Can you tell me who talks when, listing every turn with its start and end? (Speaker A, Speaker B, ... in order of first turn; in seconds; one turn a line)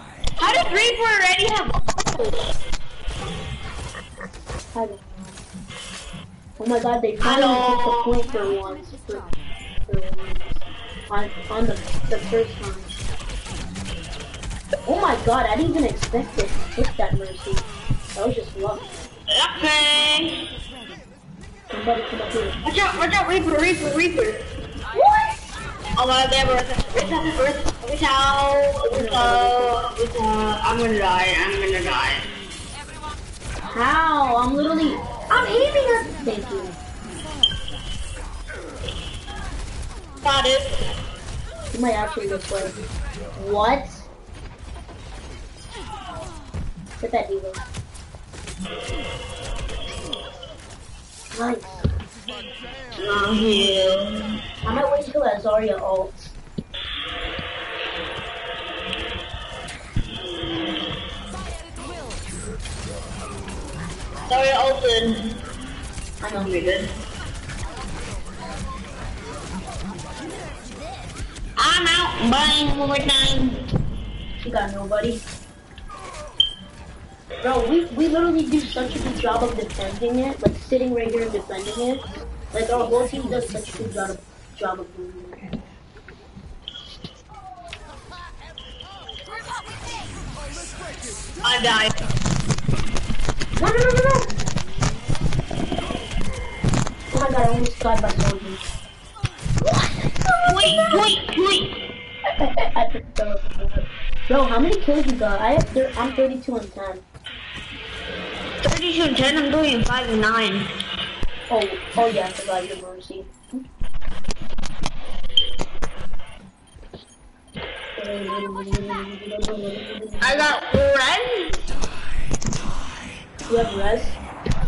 Speaker A: 0.4-2.5
Speaker B: 4.7-5.1
Speaker B: 6.6-9.3
Speaker A: 7.2-8.2
Speaker B: 9.9-13.0
Speaker B: 14.9-18.9
Speaker A: 19.3-20.4
Speaker B: 21.7-22.6
Speaker A: 22.6-24.4
Speaker B: 24.9-25.5
Speaker A: 26.0-32.3
Speaker B: 28.9-29.8
Speaker B: 33.7-36.8
Speaker A: 40.2-40.7
Speaker B: 41.7-42.8
Speaker B: 43.4-44.1
Speaker B: 47.0-47.6
Speaker B: 51.3-51.9
Speaker A: 52.9-54.2
Speaker B: 54.6-56.4
Speaker A: 64.3-65.3
Speaker B: 66.2-66.5
Speaker A: 66.3-66.9
Speaker A: 71.6-73.6
Speaker B: 74.4-75.2
Speaker B: 77.4-85.4
Speaker A: 91.4-92.0
Speaker B: 93.6-94.3
Speaker B: 97.1-98.6
Speaker B: 99.6-100.9
Speaker A: 100.4-101.8
Speaker B: 102.4-107.0
Speaker A: 108.6-110.7
Speaker B: 111.5-113.7
Speaker B: 118.0-120.5
Speaker A: 120.2-121.5
Speaker B: 123.5-124.2